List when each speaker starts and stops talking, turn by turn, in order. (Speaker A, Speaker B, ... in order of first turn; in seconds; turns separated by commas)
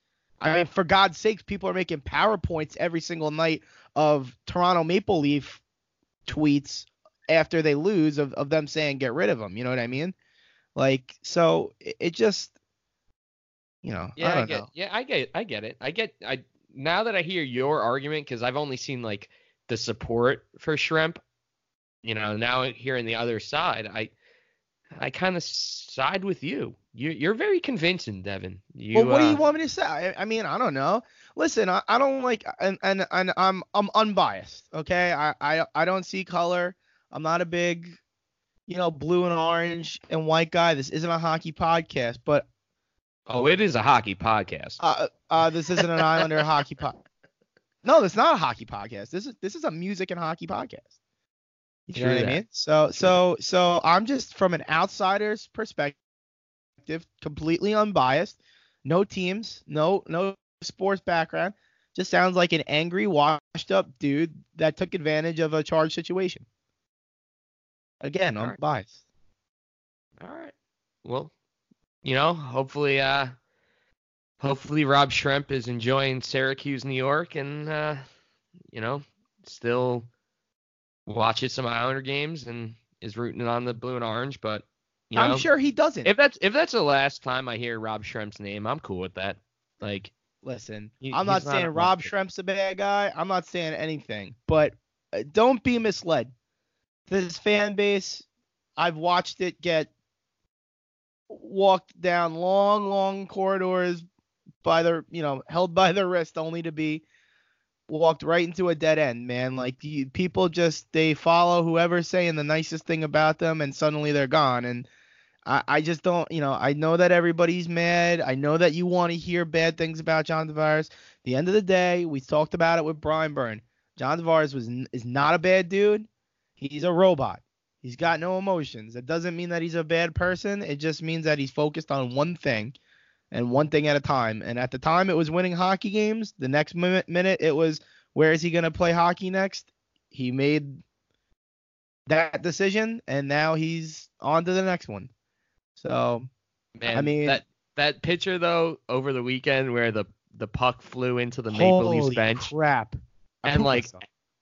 Speaker A: 0.4-5.6, Speaker A: 6.3-10.2, Speaker A: 10.8-12.5, Speaker A: 13.8-14.7, Speaker B: 14.2-21.2, Speaker B: 22.0-24.1, Speaker B: 25.0-29.4, Speaker A: 28.9-38.0, Speaker A: 38.7-42.5, Speaker B: 43.3-44.8, Speaker A: 44.8-47.0, Speaker A: 47.8-50.9, Speaker A: 51.9-56.0, Speaker B: 52.0-52.4, Speaker A: 56.8-66.5, Speaker A: 68.0-69.0, Speaker B: 70.2-71.3, Speaker B: 72.0-73.3, Speaker B: 74.4-78.0, Speaker B: 78.7-80.1, Speaker B: 81.1-85.5, Speaker A: 85.2-86.1, Speaker B: 86.0-90.1, Speaker A: 90.4-96.3, Speaker B: 91.0-92.1, Speaker A: 97.1-98.2, Speaker A: 98.8-99.9, Speaker A: 101.3-104.0, Speaker A: 104.6-107.0, Speaker A: 107.9-114.9, Speaker A: 115.5-132.8, Speaker A: 133.3-140.8, Speaker A: 142.1-145.1, Speaker A: 145.8-146.3, Speaker B: 146.8-152.5, Speaker A: 146.9-147.4, Speaker A: 151.5-154.0, Speaker B: 153.5-154.0